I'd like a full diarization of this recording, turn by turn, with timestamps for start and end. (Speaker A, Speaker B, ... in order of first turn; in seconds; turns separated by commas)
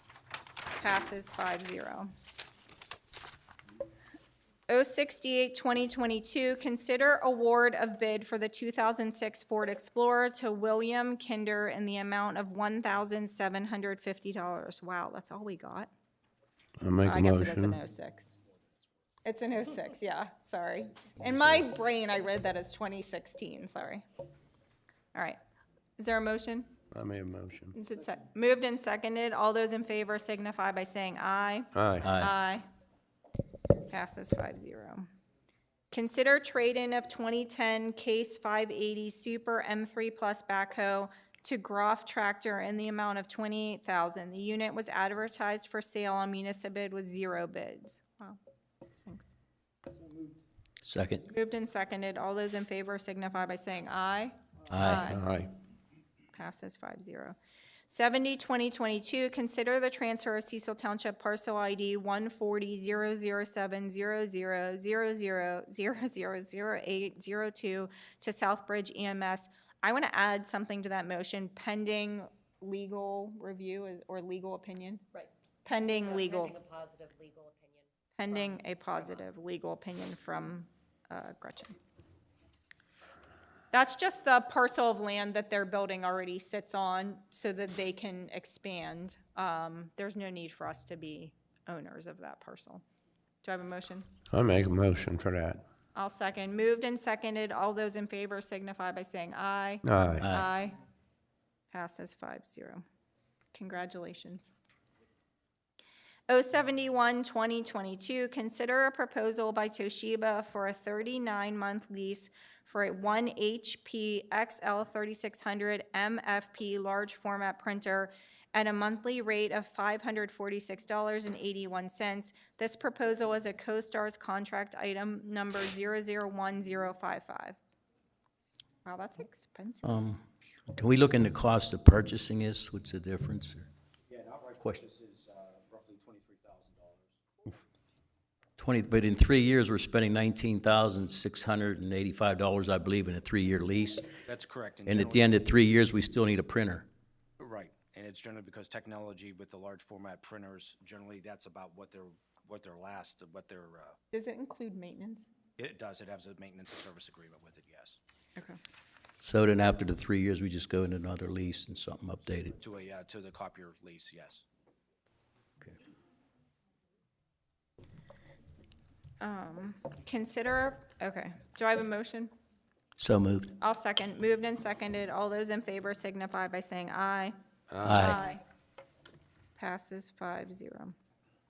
Speaker A: 0.8-2.1, Speaker A: 4.7-15.9, Speaker B: 16.8-17.8, Speaker A: 17.0-18.3, Speaker A: 19.2-24.0, Speaker A: 26.0-26.7, Speaker B: 26.9-27.7, Speaker A: 27.7-32.6, Speaker B: 31.7-32.1, Speaker C: 32.0-32.3, Speaker A: 33.9-35.0, Speaker A: 35.9-48.4, Speaker A: 48.9-49.3, Speaker C: 50.8-51.2, Speaker A: 51.2-55.3, Speaker C: 54.7-55.1, Speaker B: 55.1-55.5, Speaker A: 56.3-57.4, Speaker A: 57.9-75.0, Speaker D: 75.1-79.5, Speaker A: 75.6-76.6, Speaker A: 78.2-81.8, Speaker A: 83.7-92.8, Speaker A: 93.4-94.1, Speaker B: 94.3-95.6, Speaker A: 95.9-100.8, Speaker B: 99.8-100.2, Speaker A: 101.7-102.8, Speaker A: 103.5-104.5, Speaker A: 106.3-127.6, Speaker A: 128.8-130.1, Speaker C: 129.8-130.2, Speaker C: 130.7-133.7, Speaker E: 134.1-137.5, Speaker C: 138.6-144.1, Speaker E: 144.2-145.4, Speaker C: 144.8-146.9, Speaker E: 147.4-154.0, Speaker A: 154.1-155.3, Speaker E: 155.6-158.0, Speaker C: 159.2-162.5, Speaker E: 162.6-164.4, Speaker A: 169.2-172.3, Speaker C: 173.0-173.5, Speaker A: 173.6-177.3, Speaker B: 177.7-178.1, Speaker C: 177.8-178.2, Speaker A: 177.9-178.4, Speaker A: 179.6-180.9